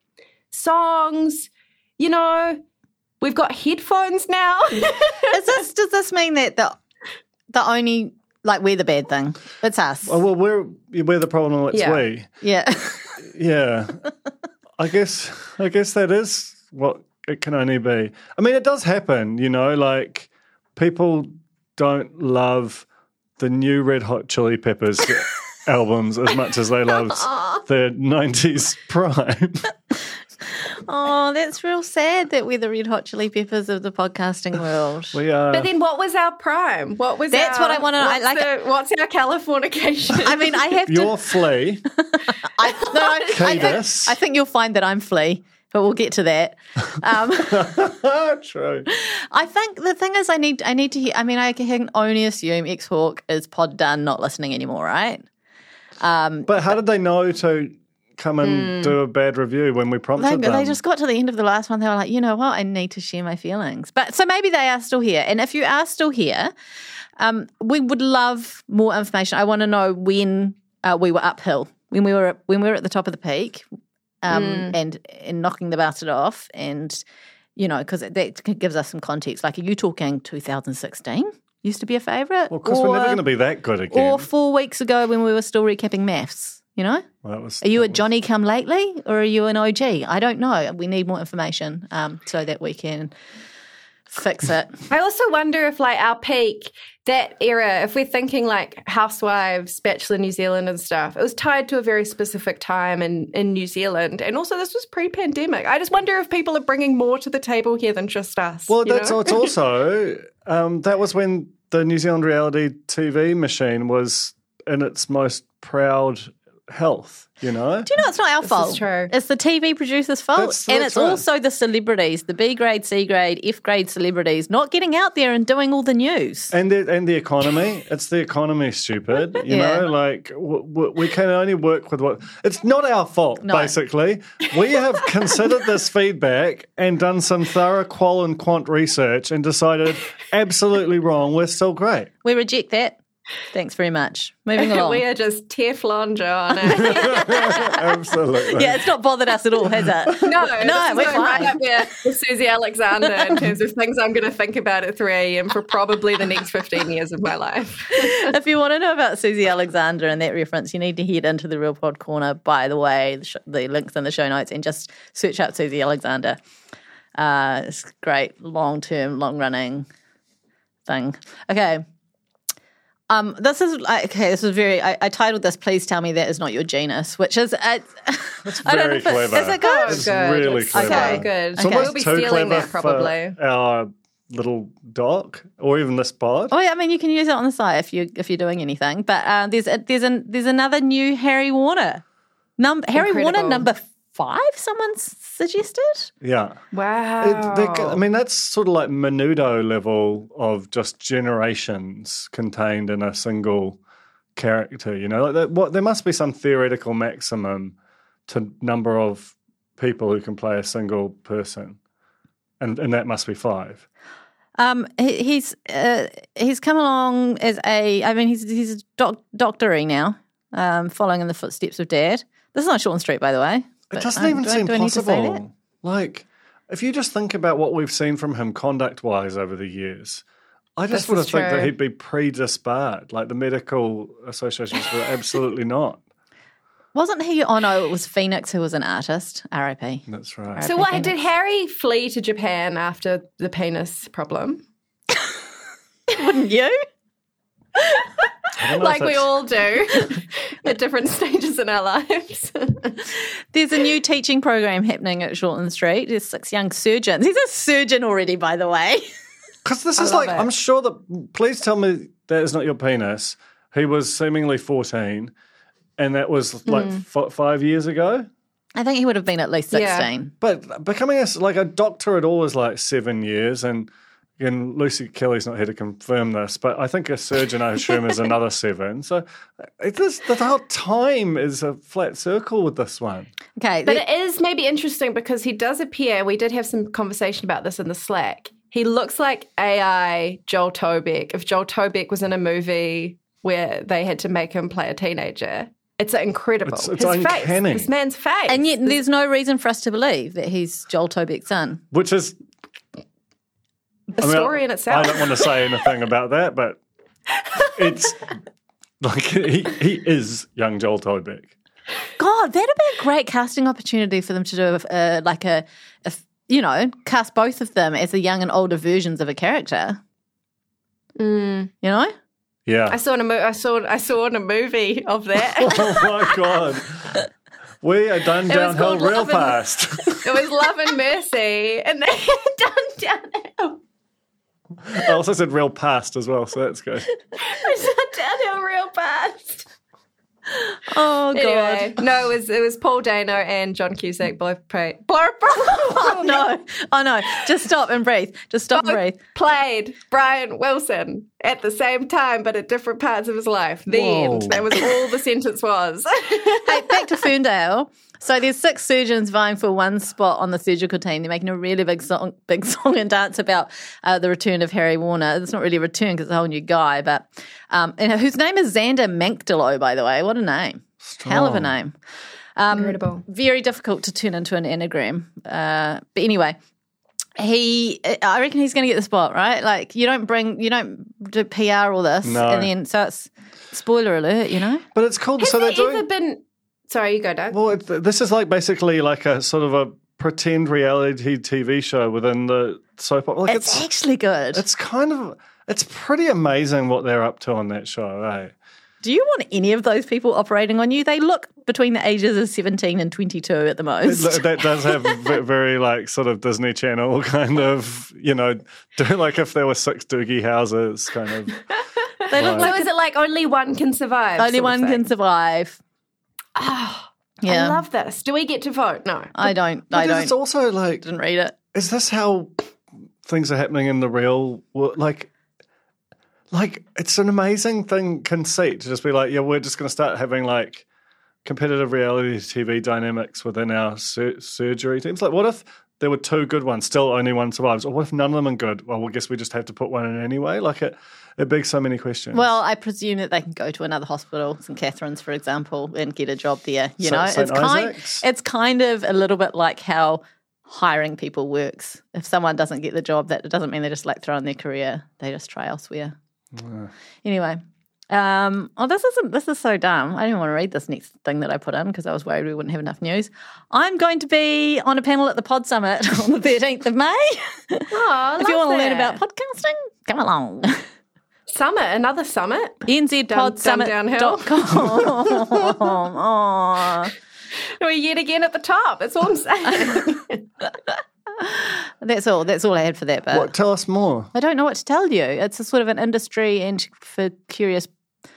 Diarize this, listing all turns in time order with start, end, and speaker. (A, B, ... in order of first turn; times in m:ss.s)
0:00.5-0:02.6 A
0:03.2-0:05.4 A
0:05.3-0:06.8 B
0:07.5-0:10.2 B
0:10.0-0:12.3 C
0:11.7-0:12.1 A
0:12.4-0:13.2 B
0:13.2-0:14.0 C
0:14.8-0:22.9 C
0:23.4-0:29.7 C
0:27.2-0:27.6 A
0:30.9-0:35.2 B
0:35.1-0:35.7 C
0:35.5-0:40.6 A
0:37.3-0:38.5 B
0:40.2-0:41.1 B
0:40.9-0:41.8 C
0:42.1-0:47.8 B
0:42.7-0:43.7 A
0:43.3-0:44.2 C
0:47.4-0:48.9 C
0:48.9-0:55.3 B
0:56.0-0:56.7 B
0:56.5-1:00.8 C
0:58.4-0:59.0 A
1:00.2-1:06.5 B
1:07.2-1:13.6 B
1:14.2-1:17.0 B
1:14.3-1:14.8 A
1:17.6-1:23.2 B
1:22.5-1:24.3 C
1:23.9-1:27.1 B
1:27.2-1:28.0 C
1:27.6-1:33.1 B
1:34.1-1:34.8 B
1:34.9-1:49.5 A
1:48.7-1:57.9 C
1:57.9-2:06.5 B
1:58.4-1:59.1 A
2:00.4-2:01.2 C
2:06.5-2:22.1 C
2:09.5-2:09.9 B
2:13.4-2:13.7 B
2:22.2-2:23.0 B
2:23.5-2:25.0 B
2:24.6-2:27.7 A
2:26.6-2:28.9 C
2:27.4-2:27.7 B
2:28.6-2:31.9 B
2:30.2-2:38.4 A
2:38.0-2:46.4 B
2:47.2-2:49.9 B
2:50.9-2:51.8 B
2:53.1-3:00.1 B
2:58.4-3:06.5 C
2:59.6-3:03.4 A
3:00.7-3:01.9 B
3:06.5-3:12.0 B
3:12.6-3:16.1 B
3:13.0-3:13.7 A
3:16.2-3:16.6 C
3:16.7-3:18.0 A
3:17.2-3:23.8 C
3:24.4-3:27.8 C
3:28.3-3:31.8 C
3:32.6-3:33.8 C
3:34.6-3:45.4 B
3:43.9-3:50.2 C
3:50.8-3:56.0 C
3:50.9-3:51.7 A
3:57.0-4:00.0 B
4:00.1-4:00.8 C
4:00.6-4:01.1 B
4:00.6-4:04.6 A
4:06.1-4:06.8 B
4:08.6-4:09.3 C
4:08.8-4:13.1 A
4:13.5-4:19.1 B
4:19.6-4:25.3 C
4:20.0-4:20.5 A
4:26.0-4:28.3 C
4:26.7-4:27.0 A
4:28.8-4:30.3 B
4:29.7-4:30.1 A
4:30.4-4:43.3 C
4:43.6-4:44.0 B
4:43.8-4:58.9 A
4:56.6-4:57.9 C
4:58.5-5:01.8 B
5:01.9-5:02.4 C
5:04.1-5:05.8 A
5:04.2-5:06.8 C
5:07.8-5:08.3 C
5:09.0-5:11.5 C
5:12.2-5:20.0 B
5:21.2-5:21.7 A
5:21.8-5:22.1 B
5:22.7-5:23.0 C
5:22.9-5:26.3 A
5:25.6-5:27.2 C
5:27.8-5:30.4 C
5:28.5-5:33.8 A
5:34.8-5:37.1 C
5:37.4-5:39.7 A
5:40.8-5:42.0 B
5:41.3-5:46.5 A
5:45.8-5:49.2 B
5:48.8-5:57.2 A
5:53.9-5:54.7 C
5:56.7-6:12.0 B
6:11.0-6:11.8 C
6:12.6-6:16.6 B
6:12.7-6:13.2 A
6:17.4-6:24.8 B
6:22.2-6:22.7 C
6:24.9-6:26.0 C
6:25.4-6:27.6 A
6:27.5-6:33.9 C
6:33.5-6:34.6 B
6:34.5-6:38.5 C
6:39.0-6:44.5 B
6:44.0-6:51.6 C
6:52.3-6:55.0 A
6:52.3-6:52.9 B
6:52.3-6:52.7 C
6:54.4-6:55.8 B
6:56.6-6:59.5 A
6:57.4-6:57.8 B
6:59.4-7:00.4 B
6:59.9-7:01.0 C
7:01.0-7:01.6 B
7:01.7-7:02.5 C
7:03.2-7:05.3 C
7:06.5-7:10.8 C
7:11.4-7:22.5 C
7:22.3-7:36.2 B
7:27.0-7:28.2 C
7:36.6-7:36.9 C
7:37.2-7:50.8 B
7:47.9-7:49.2 A
7:51.5-7:55.0 A
7:52.9-7:57.1 B
7:57.8-8:00.4 A
8:01.4-8:03.5 B
8:03.3-8:04.3 C
8:04.3-8:07.9 B